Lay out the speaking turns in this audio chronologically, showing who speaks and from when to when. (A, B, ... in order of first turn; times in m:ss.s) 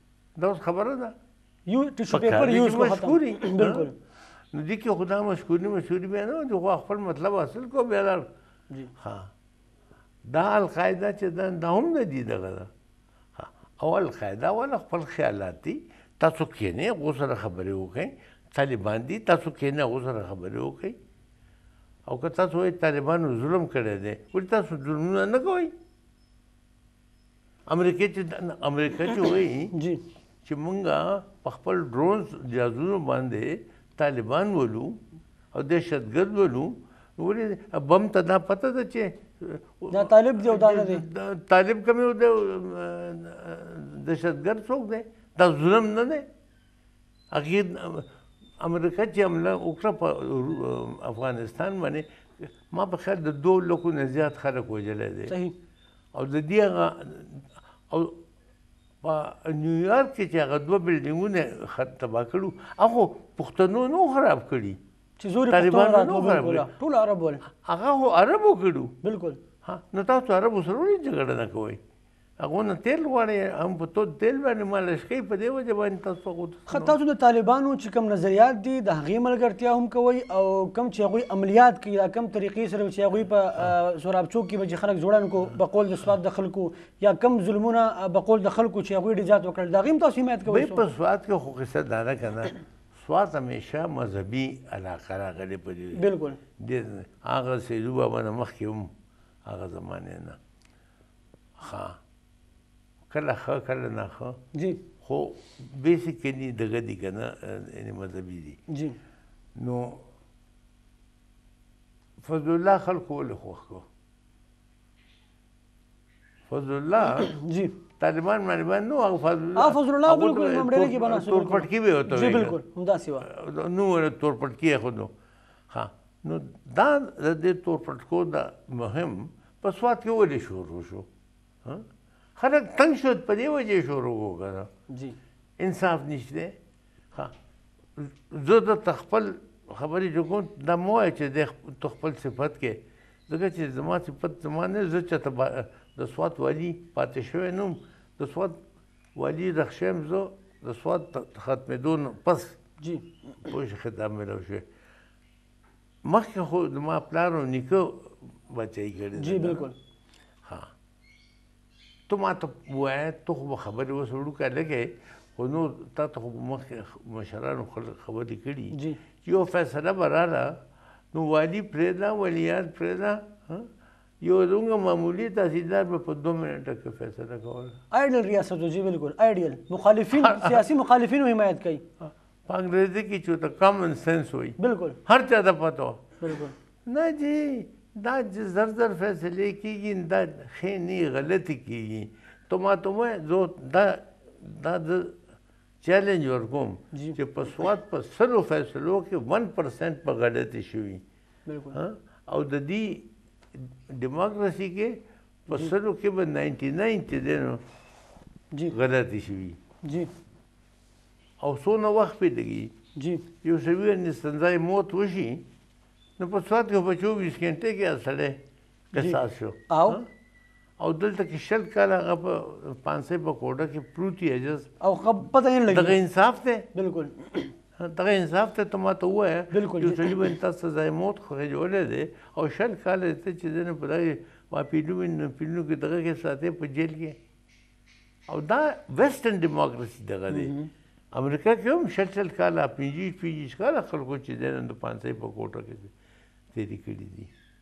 0:00.4-0:01.1 A
0:01.7-0:03.9 B
0:02.1-0:03.9 A
0:04.5-0:08.2 A
0:09.0-0:09.3 A
0:10.2-0:12.7 A
0:13.4-0:21.0 A
0:22.1-0:25.7 A
0:27.7-0:29.7 A
0:29.7-0:30.0 B
0:30.4-0:35.0 A
0:35.5-0:46.2 A
0:39.9-0:41.0 B
0:47.3-0:48.1 A
0:48.6-0:55.3 A
0:55.3-0:55.5 B
0:56.1-0:58.2 A
0:59.0-1:04.8 A
1:05.2-1:07.4 B
1:05.5-1:06.7 A
1:07.5-1:08.9 A
1:09.0-1:09.4 B
1:09.6-1:11.8 A
1:12.4-1:17.0 A
1:16.7-1:30.8 B
1:30.5-1:36.1 A
1:35.9-1:36.4 B
1:36.6-1:38.9 A
1:39.4-1:40.4 A
1:41.6-1:42.0 A
1:43.1-1:44.4 A
1:44.5-1:44.8 B
1:45.0-1:48.6 A
1:48.7-1:49.0 B
1:49.6-1:50.0 A
1:52.2-1:53.8 A
1:56.5-1:57.3 A
1:57.1-1:57.8 B
1:58.0-2:02.6 A
1:59.5-2:03.3 B
2:03.2-2:05.1 A
2:05.7-2:11.1 A
2:12.4-2:14.7 A
2:14.9-2:15.2 B
2:15.6-2:16.6 A
2:18.0-2:28.6 A
2:29.1-2:32.6 A
2:32.8-2:33.1 B
2:33.4-2:34.6 A
2:36.0-2:39.7 A
2:39.2-2:39.7 B
2:40.4-2:40.7 A
2:42.1-2:50.6 A
2:48.7-2:49.0 B
2:51.1-2:53.7 A
2:54.2-2:57.8 A
2:57.9-3:01.8 B
3:00.1-3:00.6 A
3:02.0-3:06.2 A
3:04.6-3:05.0 B
3:06.2-3:06.5 B
3:06.8-3:15.2 A
3:15.8-3:21.0 A
3:16.9-3:17.2 B
3:21.4-3:21.8 B
3:21.7-3:27.6 A
3:28.7-3:29.6 A
3:29.8-3:30.1 B
3:31.4-3:32.7 A
3:33.0-3:33.2 B
3:33.4-3:35.5 A
3:36.2-3:38.4 A
3:38.9-3:40.0 A
3:39.7-3:40.0 B
3:40.8-3:44.7 A
3:44.8-3:46.0 B
3:45.7-3:46.7 A
3:46.7-3:47.5 B
3:47.8-3:57.2 A
3:49.5-3:50.4 B
3:58.3-4:00.5 A
4:00.3-4:00.7 B
4:01.1-4:05.9 A
4:06.5-4:07.3 A